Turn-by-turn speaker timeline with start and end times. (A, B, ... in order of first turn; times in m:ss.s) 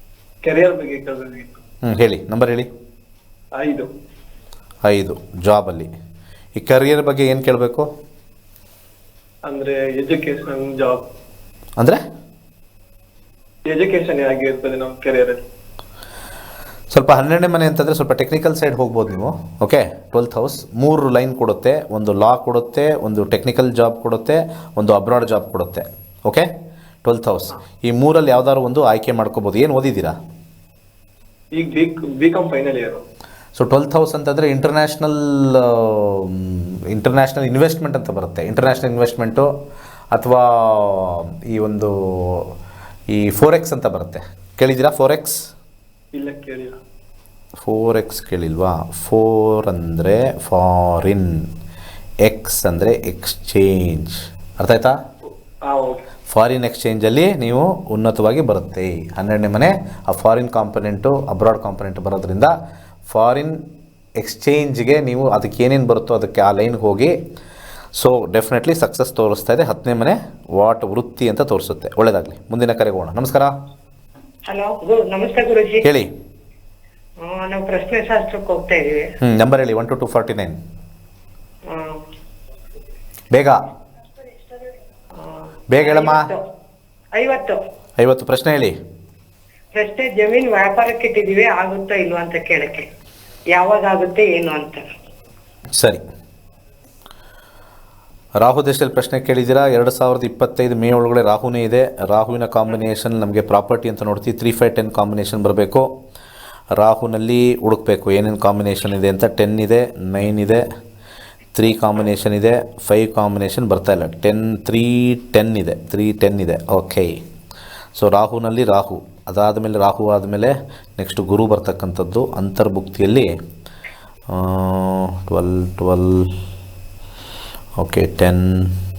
0:00.4-0:01.6 A
0:01.8-0:02.7 B
0:03.6-0:03.9 A
0:04.8-0:05.9 B
0:06.6-0:07.9 B
0:09.5-0:11.0 A
0:13.7-0:15.4 A
0:16.9-0:26.5 B
0:27.0-0:30.2 B
0:31.6-0:33.0 A
0:33.6-0:39.5 B
0:40.1-0:42.5 B
0:43.1-0:45.4 B
0:46.1-0:46.8 A
0:47.6-0:51.4 B
0:52.2-0:54.9 B
0:55.6-0:56.0 A
0:56.3-1:02.5 B
1:03.1-1:03.6 B
1:04.2-1:07.1 B
1:08.0-1:13.5 B
1:14.5-1:15.8 C
1:15.8-1:16.1 B
1:17.2-1:19.1 C
1:19.2-1:20.6 B
1:21.7-1:22.0 C
1:23.3-1:23.6 B
1:25.1-1:26.4 C
1:25.7-1:26.3 B
1:27.1-1:27.6 C
1:28.0-1:28.8 B
1:29.7-1:32.9 C
1:33.5-1:34.8 C
1:38.4-1:45.9 B
1:46.7-1:50.6 B
1:51.6-1:57.1 B
1:58.0-2:03.3 B
2:04.3-2:06.3 B
2:07.8-2:08.7 B